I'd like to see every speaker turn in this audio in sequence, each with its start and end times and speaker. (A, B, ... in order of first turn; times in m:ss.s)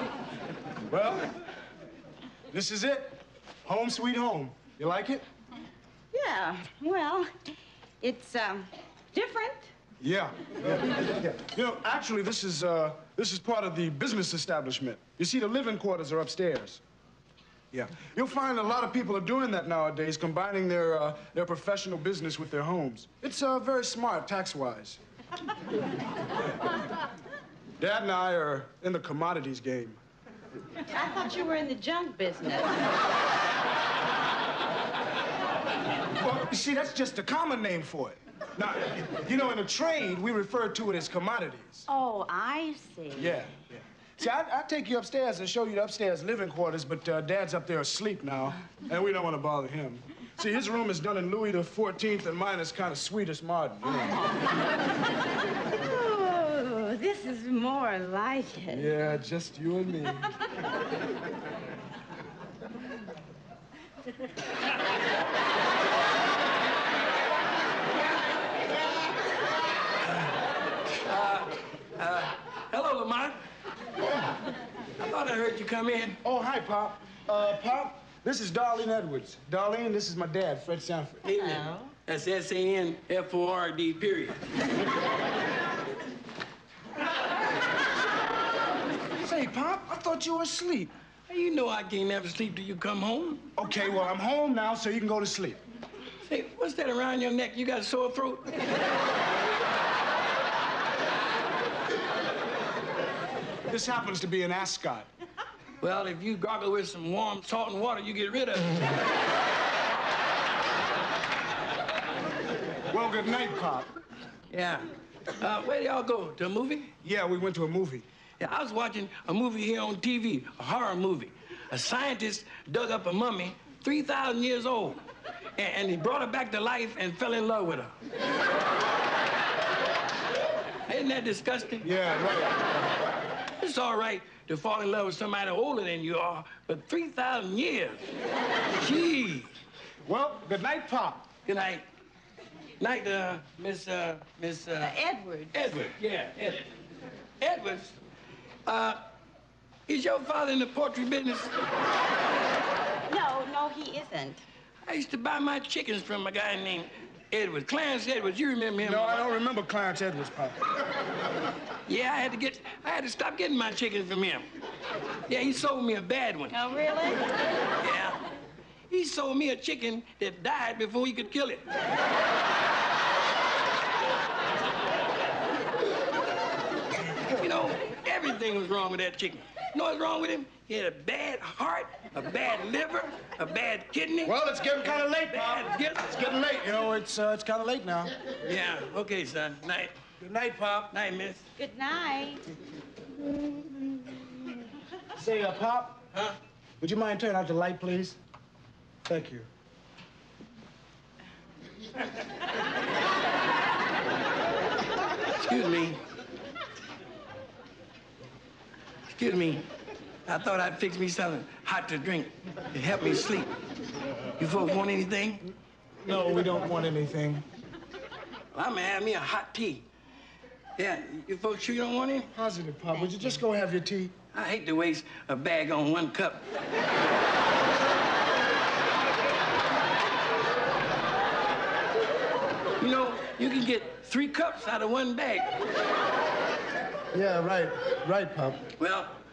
0:00.9-0:01.3 A
0:02.5-0:05.2 A
0:06.1-0:07.3 B
0:08.0-0:09.7 B
0:10.0-0:16.8 A
0:17.7-0:25.0 A
0:27.8-0:30.0 A
0:30.9-0:32.9 B
0:36.1-0:41.9 A
0:41.9-0:43.4 B
0:43.2-0:54.3 A
0:55.7-0:58.9 B
0:58.7-1:00.3 A
1:10.9-1:13.4 C
1:15.0-1:16.2 C
1:16.2-1:21.2 A
1:21.2-1:24.4 C
1:21.3-1:21.9 B
1:29.2-1:30.9 A
1:31.3-1:33.4 C
1:33.6-1:35.6 A
1:36.2-1:38.6 C
1:43.7-1:45.1 A
1:45.8-1:49.0 C
1:52.9-1:53.9 A
1:54.5-1:56.9 C
1:57.0-1:58.1 A
1:58.4-2:05.0 C
2:05.6-2:07.9 C
2:10.9-2:11.9 C
2:11.8-2:12.6 A
2:13.6-2:18.1 C
2:18.8-2:19.5 C
2:20.0-2:21.3 A
2:21.5-2:21.8 C
2:22.8-2:25.0 C
2:24.8-2:25.5 B
2:25.5-2:26.7 C
2:27.4-2:28.0 C
2:28.7-2:29.0 C
2:29.9-2:31.5 C
2:33.1-2:34.4 B
2:34.8-2:39.3 C
2:38.8-2:40.8 A
2:41.9-2:44.5 C
2:45.3-2:46.6 C
2:46.5-2:47.2 B
2:47.8-2:48.2 C
2:48.9-2:51.6 C
2:57.3-3:04.4 C
3:04.2-3:08.1 A
3:04.9-3:06.3 C
3:08.4-3:10.0 C
3:10.2-3:10.9 A
3:10.9-3:11.4 C
3:11.6-3:12.4 B
3:15.2-3:16.0 A
3:16.8-3:18.2 A
3:19.0-3:19.5 A
3:25.4-3:26.0 C
3:29.1-3:29.7 C
3:30.3-3:33.5 C
3:34.4-3:35.5 C
3:36.0-3:37.4 A
3:38.5-3:39.8 C
3:40.8-3:42.3 C
3:42.3-3:44.1 A
3:44.3-3:46.4 C
3:52.8-3:55.5 C
3:57.1-3:58.7 A
3:58.8-3:59.1 C